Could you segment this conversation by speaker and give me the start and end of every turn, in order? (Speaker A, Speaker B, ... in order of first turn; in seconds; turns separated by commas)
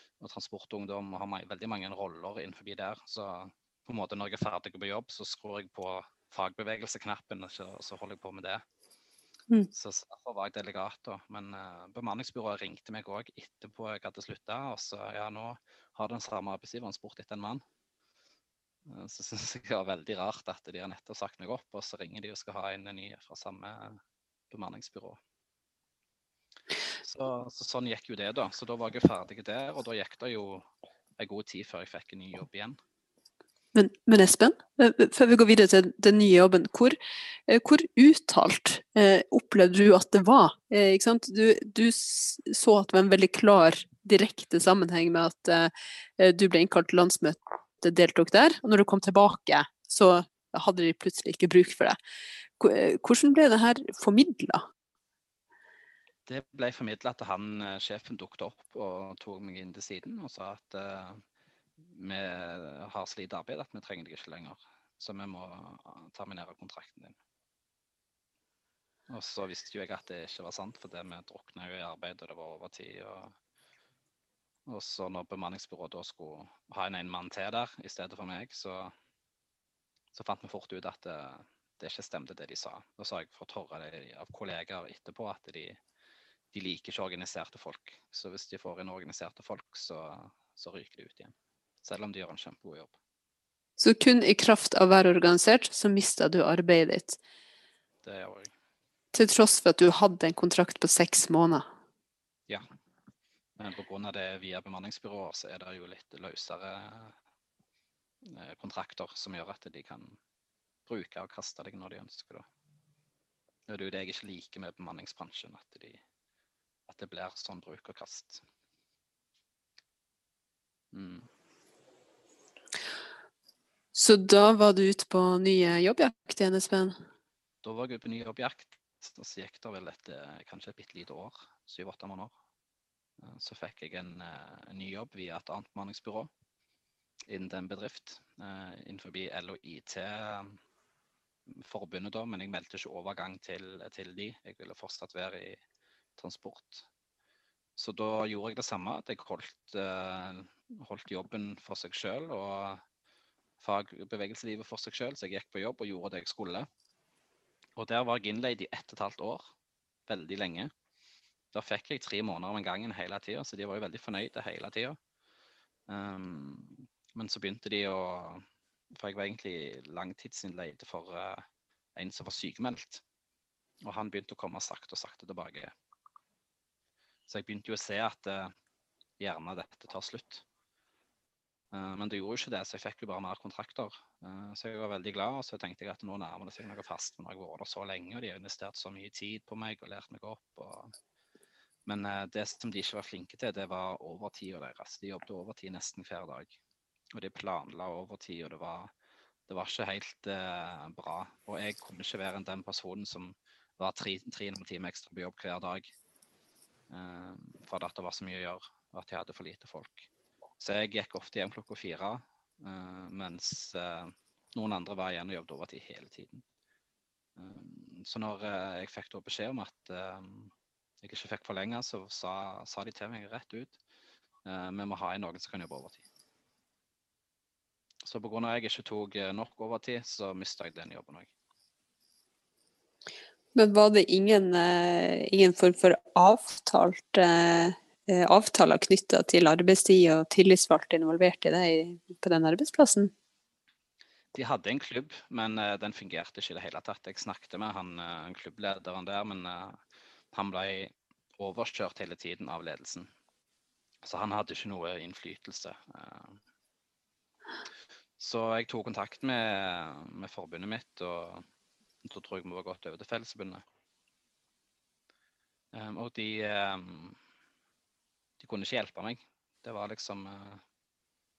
Speaker A: 0.2-8.6, Speaker A: 9.7-17.6, Speaker A: 18.9-24.0, Speaker A: 24.5-25.2, Speaker A: 27.0-30.7, Speaker A: 31.2-32.8, Speaker B: 33.7-37.0, Speaker B: 37.5-52.0, Speaker B: 52.6-54.6, Speaker A: 56.3-61.2, Speaker A: 61.8-67.2, Speaker A: 69.1-73.3, Speaker A: 74.7-78.9, Speaker A: 80.1-85.8, Speaker A: 86.5-92.9, Speaker B: 93.8-97.2, Speaker A: 98.0-98.5, Speaker B: 99.1-101.6, Speaker A: 103.6-107.2, Speaker A: 108.2-110.2, Speaker A: 110.9-112.5, Speaker A: 113.7-116.0, Speaker A: 116.9-118.4, Speaker A: 120.9-121.3, Speaker B: 123.9-126.9, Speaker A: 127.6-132.3, Speaker A: 133.2-136.3, Speaker A: 137.3-140.6, Speaker A: 141.5-145.6, Speaker A: 146.2-146.9, Speaker A: 147.8-152.8, Speaker A: 153.6-156.7, Speaker A: 157.8-159.4, Speaker A: 160.1-160.7, Speaker A: 161.5-165.0, Speaker A: 165.9-171.4, Speaker A: 171.9-173.0, Speaker A: 173.8-175.7, Speaker A: 177.3-178.5, Speaker A: 179.2-180.4, Speaker A: 181.7-190.9, Speaker A: 191.8-196.6, Speaker A: 197.1-198.9, Speaker A: 199.5-205.9, Speaker A: 206.9-210.1, Speaker A: 210.6-216.4, Speaker A: 217.4-223.8, Speaker A: 224.4-226.0, Speaker A: 228.0-231.3, Speaker B: 233.5-243.1, Speaker A: 244.3-249.8, Speaker A: 250.3-253.1, Speaker A: 254.0-256.4, Speaker A: 258.2-261.4, Speaker A: 262.0-263.6, Speaker A: 265.7-267.2, Speaker A: 268.4-270.6